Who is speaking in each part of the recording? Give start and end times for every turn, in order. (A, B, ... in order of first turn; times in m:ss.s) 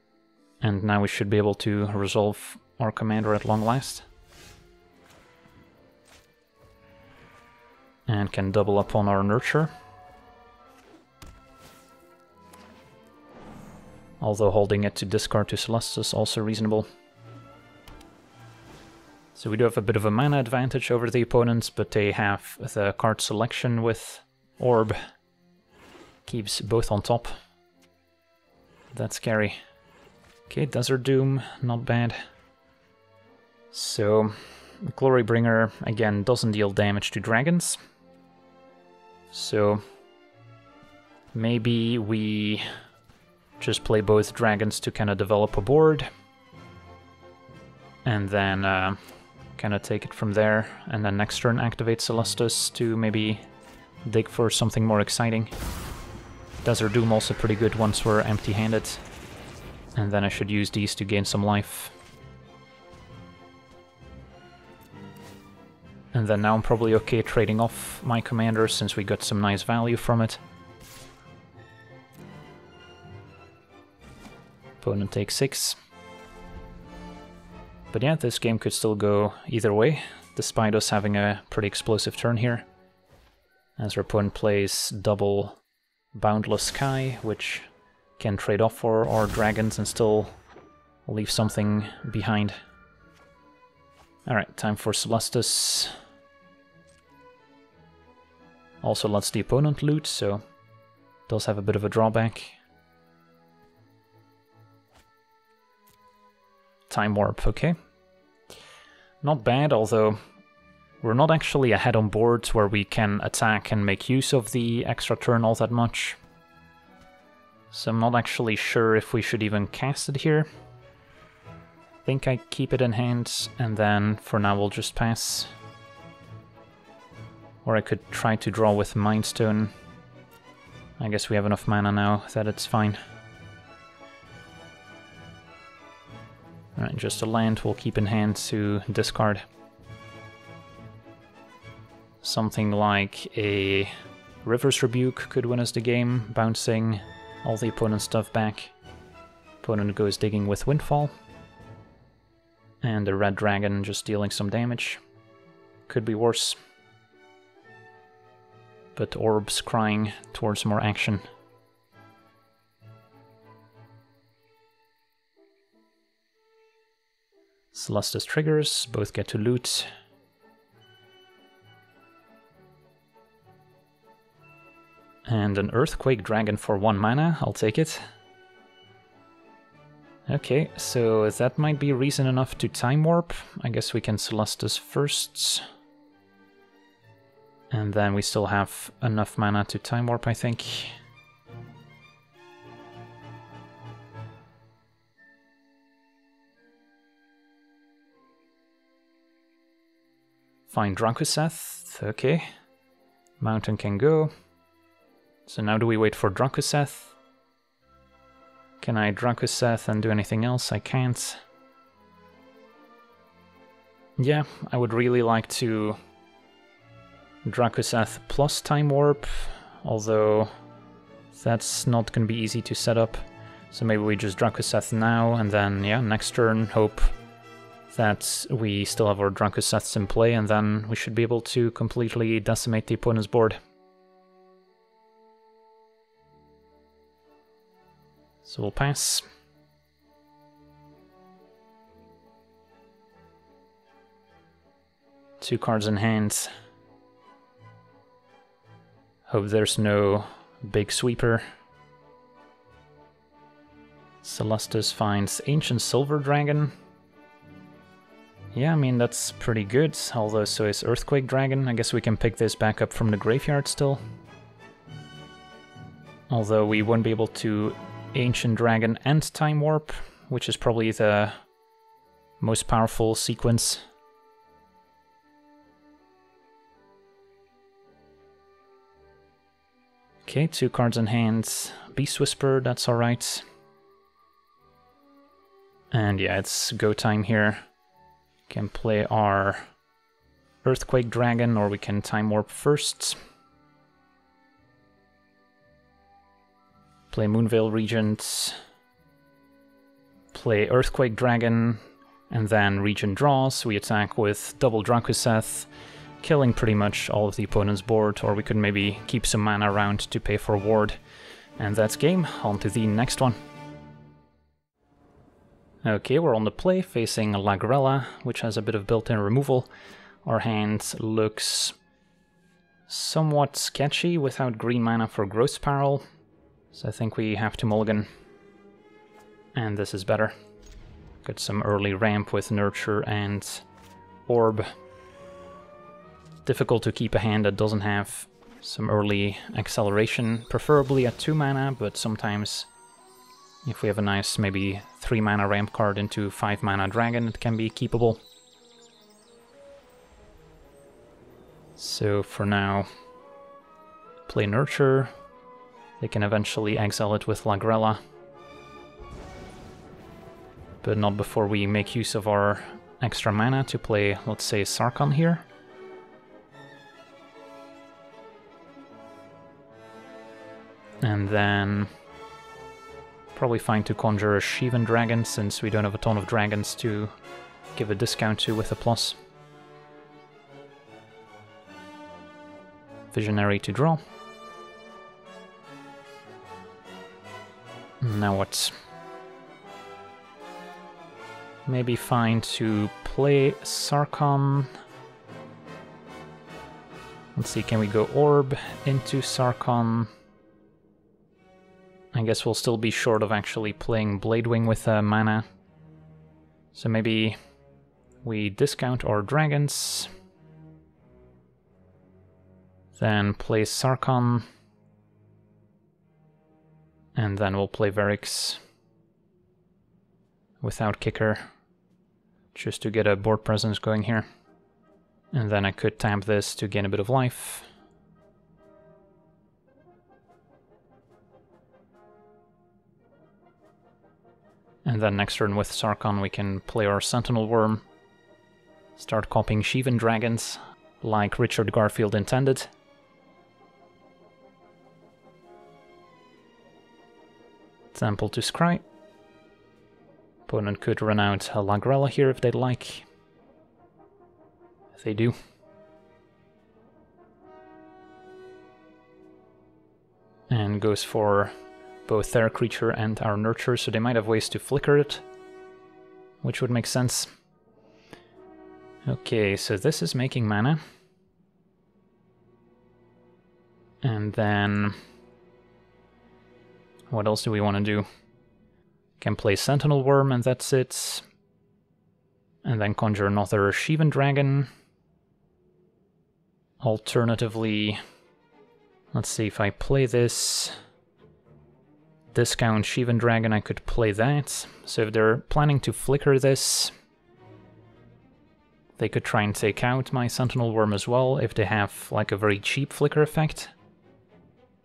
0:00.6-0:04.1 A
0:08.1-0:09.7 A
0:14.2-0:16.9 A
0:19.3-0:25.0 A
0:26.2-0:27.3 A
0:28.9-0:29.6 A
0:30.5-0:32.2 A
0:33.7-0:37.8 A
0:39.3-0:39.8 A
0:41.3-0:42.6 A
0:43.6-0:46.1 A
0:48.0-0:49.0 A
0:49.6-0:53.4 A
0:54.0-0:55.5 A
0:56.6-0:59.0 A
1:00.0-1:01.9 A
1:06.1-1:10.4 A
1:14.8-1:15.8 A
1:17.9-1:22.6 A
1:23.8-1:25.6 A
1:26.1-1:30.4 A
1:31.1-1:32.6 A
1:34.3-1:35.9 A
1:38.8-1:40.4 A
1:41.3-1:42.6 A
1:46.9-1:47.7 A
1:49.2-1:50.2 A
1:51.0-1:56.2 A
1:57.7-2:00.5 A
2:02.0-2:05.5 A
2:07.6-2:09.7 A
2:11.0-2:13.0 A
2:16.8-2:19.4 A
2:22.2-2:23.9 A
2:24.4-2:28.7 A
2:29.6-2:31.1 A
2:32.8-2:35.0 A
2:35.9-2:36.6 A
2:39.0-2:41.2 A
2:47.7-2:49.9 A
2:55.3-2:58.0 A
3:00.3-3:05.6 A
3:07.7-3:10.9 A
3:20.7-3:22.5 A
3:23.4-3:24.3 A
3:25.4-3:27.1 A
3:28.8-3:31.4 A
3:34.2-3:36.0 A
3:37.4-3:40.5 A
3:41.3-3:47.1 A
3:47.9-3:53.6 A
3:58.4-3:59.2 A
4:05.4-4:06.5 A
4:09.3-4:11.4 A
4:14.2-4:16.7 A
4:18.5-4:24.0 A
4:26.3-4:31.4 A
4:32.4-4:33.8 A
4:40.2-4:43.4 A
4:45.9-4:47.6 A
4:48.5-4:49.6 A
4:50.6-4:53.2 A
4:57.1-4:58.6 A
5:00.3-5:05.7 A
5:06.2-5:11.0 A
5:11.6-5:13.4 A
5:15.8-5:19.7 A
5:20.2-5:21.8 A
5:22.9-5:26.0 A
5:26.7-5:28.1 A
5:29.6-5:30.3 A
5:31.2-5:33.6 A
5:34.3-5:34.7 A
5:36.4-5:42.7 A
5:43.6-5:48.2 A
5:51.8-5:52.9 A
5:54.3-5:55.1 A
5:56.0-5:58.0 A
6:00.8-6:05.4 A
6:11.0-6:11.9 A
6:13.3-6:17.1 A
6:17.8-6:19.2 A
6:23.1-6:24.0 A
6:28.0-6:28.7 A
6:31.6-6:34.7 A
6:37.4-6:40.1 A
6:42.1-6:45.4 A
6:46.7-6:47.4 A
6:48.2-6:50.1 A
6:53.0-6:54.5 A
6:57.2-6:58.6 A
7:00.6-7:01.5 A
7:02.5-7:04.2 A
7:05.3-7:07.7 A
7:14.8-7:17.8 A
7:19.0-7:22.7 A
7:27.9-7:28.8 A
7:30.5-7:33.0 A
7:34.9-7:35.3 A
7:40.5-7:41.5 A
7:42.0-7:45.2 A
7:46.4-7:47.3 A
7:49.0-7:50.8 A
7:54.0-7:55.0 A
7:57.1-7:58.0 A
7:59.2-8:01.2 A
8:02.6-8:04.7 A
8:06.8-8:08.0 A
8:09.1-8:10.8 A
8:12.3-8:16.9 A
8:19.0-8:23.7 A